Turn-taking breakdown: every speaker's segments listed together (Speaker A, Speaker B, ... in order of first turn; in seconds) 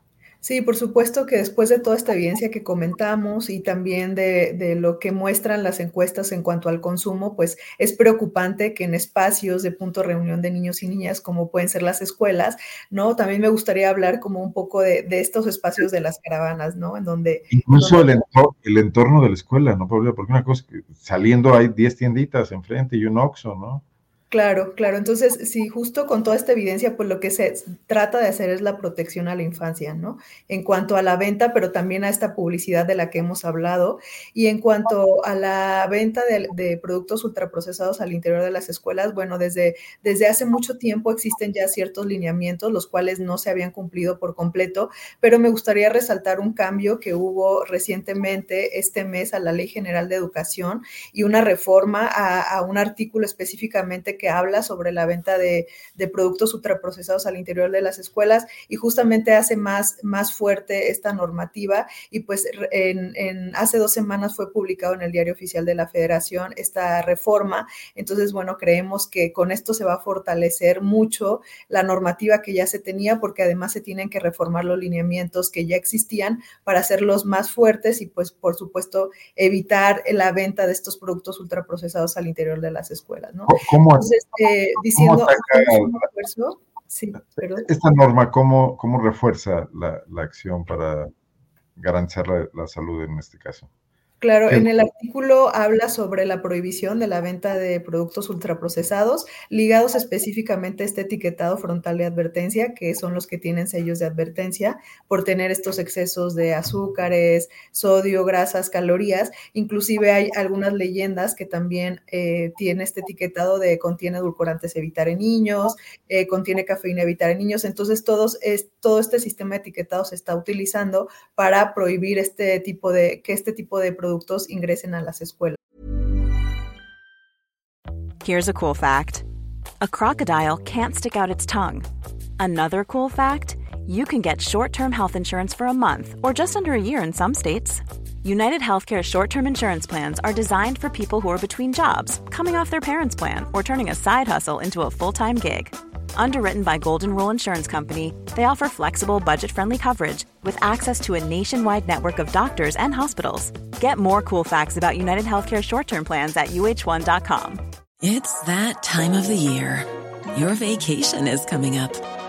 Speaker A: 0.4-18.0, 24.3-87.7, 94.2-125.6
Speaker B: 17.5-23.8, 83.5-84.1, 84.8-86.0, 87.4-91.1, 91.8-93.7
Speaker C: 128.2-129.2, 129.8-131.8, 132.4-157.6
Speaker D: 158.0-162.0